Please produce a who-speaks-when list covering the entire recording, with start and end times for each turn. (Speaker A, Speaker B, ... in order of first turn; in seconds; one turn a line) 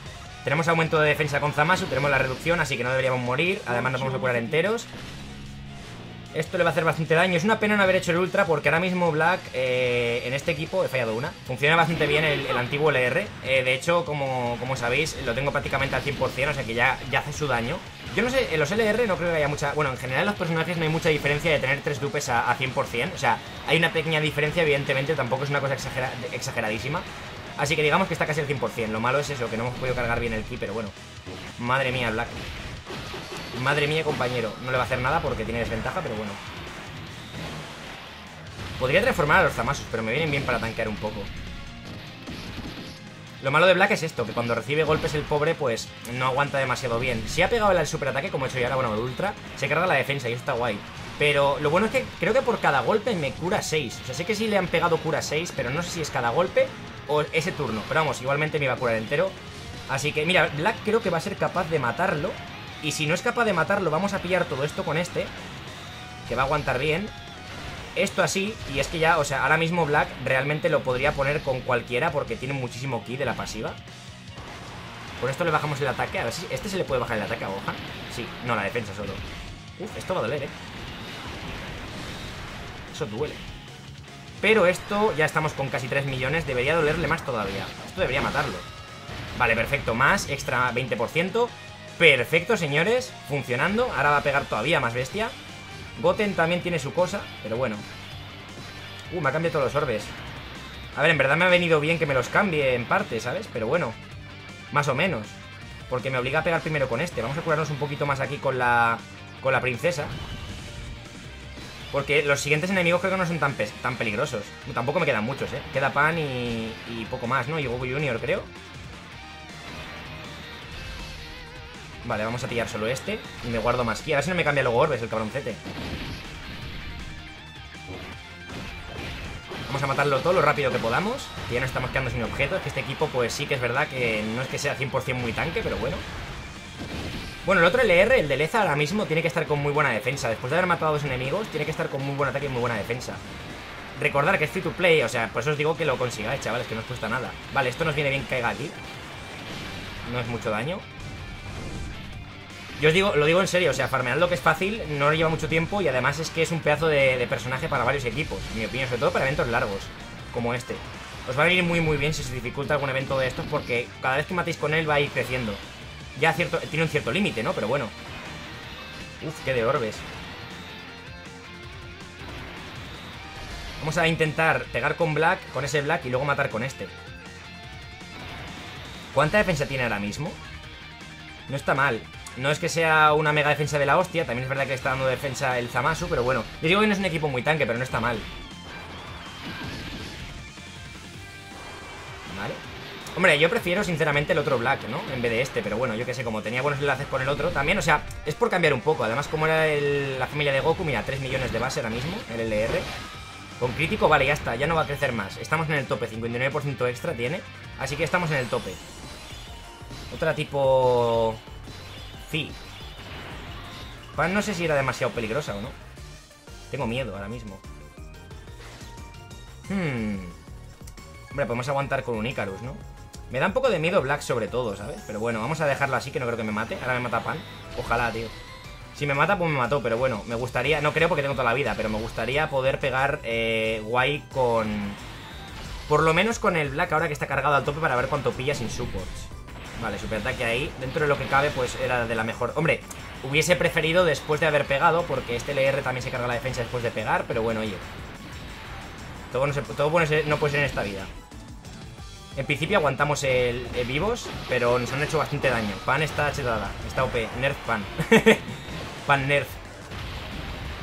Speaker A: 0.4-4.9
Speaker A: 6.3-30.9
Speaker A: 31.6-32.4
Speaker A: 33.5-36.4
Speaker A: 38.8-41.3
Speaker A: 43.4-59.4
Speaker A: 59.9-65.3
Speaker A: 66.3-67.1
Speaker A: 68.0-73.8
Speaker A: 75.2-79.2
Speaker A: 79.8-80.5
Speaker A: 82.9-83.4
Speaker A: 84.4-88.7
Speaker A: 89.4-95.3
Speaker A: 96.0-97.8
Speaker A: 99.1-100.2
Speaker A: 100.9-104.0
Speaker A: 104.7-110.2
Speaker A: 111.9-118.5
Speaker A: 122.0-125.6
Speaker A: 129.7-136.1
Speaker A: 137.4-143.2
Speaker A: 143.9-148.8
Speaker A: 150.1-150.8
Speaker A: 152.8-165.6
Speaker A: 166.2-167.9
Speaker A: 169.2-170.1
Speaker A: 173.8-176.9
Speaker A: 179.1-180.4
Speaker A: 181.5-188.3
Speaker A: 192.3-192.6
Speaker A: 193.2-202.9
Speaker A: 203.6-208.8
Speaker A: 210.1-211.4
Speaker A: 212.2-212.6
Speaker A: 214.1-215.8
Speaker A: 216.7-217.6
Speaker A: 219.7-220.4
Speaker A: 221.3-228.3
Speaker A: 228.9-235.0
Speaker A: 235.9-247.9
Speaker A: 249.3-251.1
Speaker A: 252.4-259.6